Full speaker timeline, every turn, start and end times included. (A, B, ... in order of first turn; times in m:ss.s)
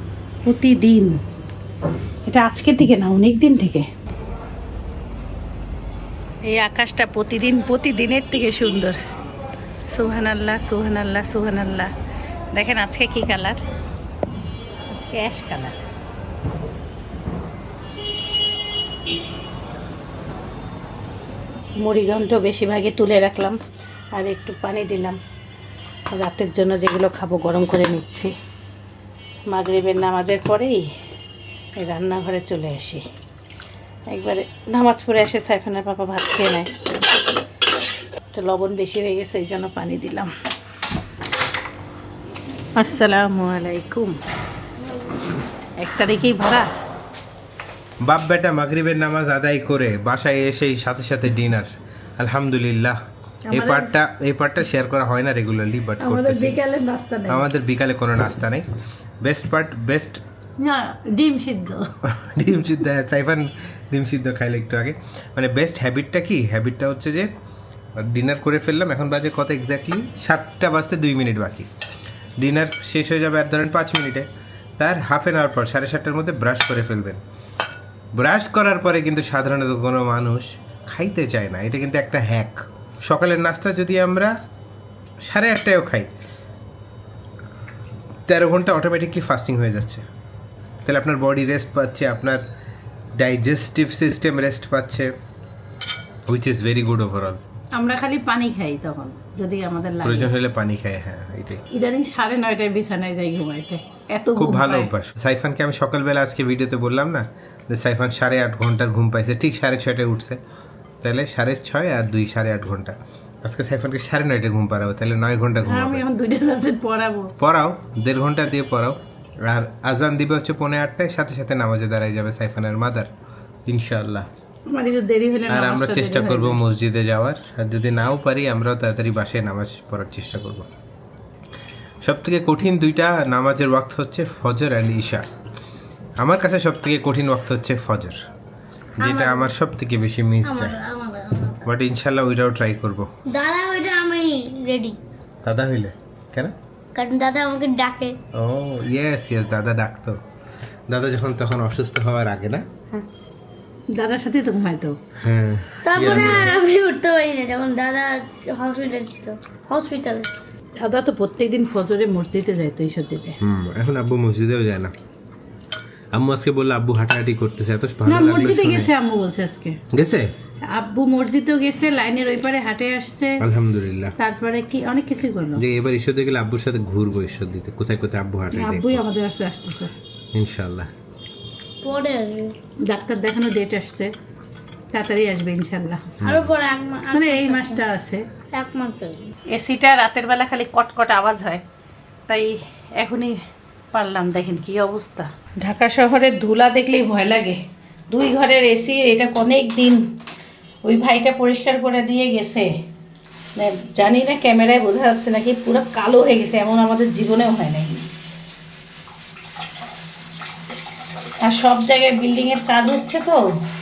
0:00.4-0:01.2 A
0:02.3-0:03.9 A
0:06.4-0:09.0 A
0:09.9-0:11.9 A
0:12.6-0:13.6 A
0:14.9-0:15.8 A
0:21.8-0:23.6 A
0:24.2-0:25.2 A
0:26.1-0:28.3 A
0:29.5-0:30.9 A
0:31.8-0:33.0 A
0:34.1-0:36.7 A
0:38.3-0:40.3 A
0:42.8-0:44.2 A
0:45.8-0:46.7 A
0:48.0-0:53.0 B
0:53.5-0:53.9 A
0:53.5-0:56.6 B
0:56.0-0:57.5 A
0:57.3-0:58.7 B
0:59.2-1:00.2 B
1:00.6-1:01.9 A
1:02.0-1:07.3 B
1:08.0-1:11.7 B
1:12.4-1:17.2 B
1:18.2-1:24.4 B
1:25.2-1:26.1 B
1:28.3-1:30.0 B
1:30.8-1:32.4 B
1:33.2-1:35.1 B
1:36.3-1:37.4 B
1:37.8-1:40.3 A
1:40.0-1:41.6 B
1:41.7-1:44.9 A
1:44.4-1:50.4 B
1:51.0-1:56.0 B
1:55.6-1:57.3 A
1:57.4-2:03.1 B
2:03.7-2:04.3 B
2:04.7-2:06.6 A
2:05.5-2:10.7 B
2:12.0-2:15.3 B
2:16.2-2:18.2 B
2:19.0-2:20.8 B
2:19.0-2:19.5 C
2:20.4-2:21.7 C
2:21.6-2:23.1 B
2:23.3-2:25.0 C
2:25.4-2:26.6 B
2:27.0-2:28.2 C
2:28.3-2:30.2 B
2:30.9-2:32.7 B
2:33.9-2:35.0 A
2:35.2-2:36.6 B
2:35.8-2:40.3 C
2:36.0-2:36.5 A
2:40.8-2:43.4 A
2:43.4-2:44.9 B
2:46.1-2:48.9 B
2:48.0-2:49.8 A
2:49.9-2:50.3 B
2:50.7-2:53.4 A
2:53.4-2:54.2 B
2:54.2-2:55.6 A
2:55.6-2:59.0 B
2:58.5-2:59.9 A
3:00.3-3:00.9 B
3:01.8-3:02.6 C
3:02.8-3:04.1 A
3:04.9-3:06.1 A
3:06.2-3:06.6 B
3:06.2-3:07.8 C
3:07.1-3:08.2 A
3:08.5-3:09.2 C
3:09.5-3:11.6 A
3:12.3-3:13.4 A
3:13.9-3:20.0 A
3:20.8-3:22.7 A
3:23.6-3:28.0 A
3:31.4-3:33.5 A